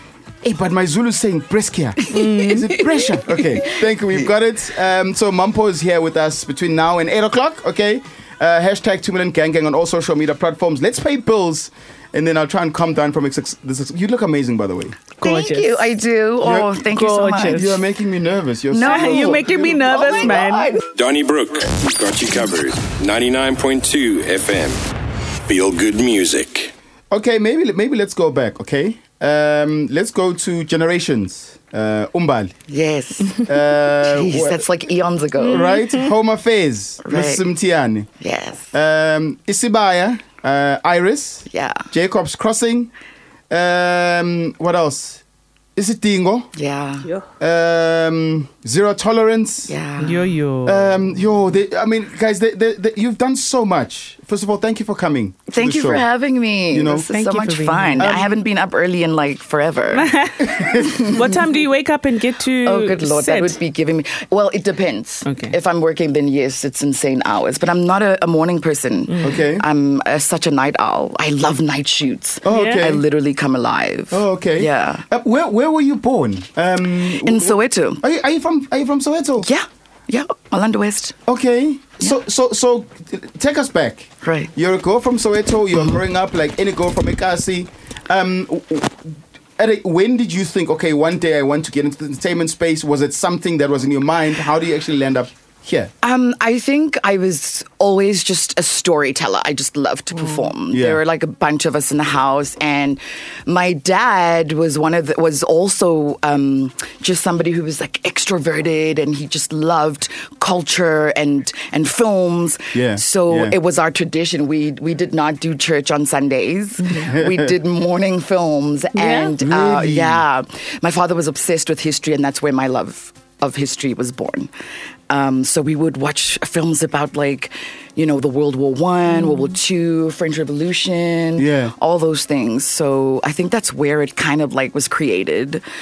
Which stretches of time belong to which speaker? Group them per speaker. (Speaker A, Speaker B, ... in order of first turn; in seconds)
Speaker A: 0.4-15.0, 16.4-16.7, 17.5-19.9, 27.1-32.5, 33.4-34.6, 35.4-38.1, 38.7-42.9, 43.5-45.2, 45.8-46.5, 47.4-49.7, 50.6-56.1, 56.7-57.1, 60.4-61.0, 69.2-69.7, 72.4-73.0, 74.1-79.5, 81.3-95.9, 100.7-101.0, 112.7-113.6, 117.1-117.5, 119.4-120.2, 131.4-131.7
Speaker B: 2.0-3.2, 15.2-17.6, 18.7-20.8, 32.7-33.5, 34.0-35.7, 37.0-37.5, 38.2-38.7, 41.5-41.9, 46.5-47.1, 49.7-50.3, 55.5-60.1, 60.8-61.3, 62.6-75.1, 77.1-78.0, 79.4-81.2, 84.2-84.5, 96.0-124.5, 125.1-135.6
Speaker C: 2.1-2.8, 15.2-15.8, 16.9-17.8, 18.8-20.8, 35.5-36.1, 50.0-51.0, 57.1-58.2, 59.9-63.6, 65.3-65.5, 69.1-69.4, 72.5-72.9, 116.8-117.1, 118.9-119.3, 129.2-129.5
Speaker D: 20.8-24.8, 25.5-26.7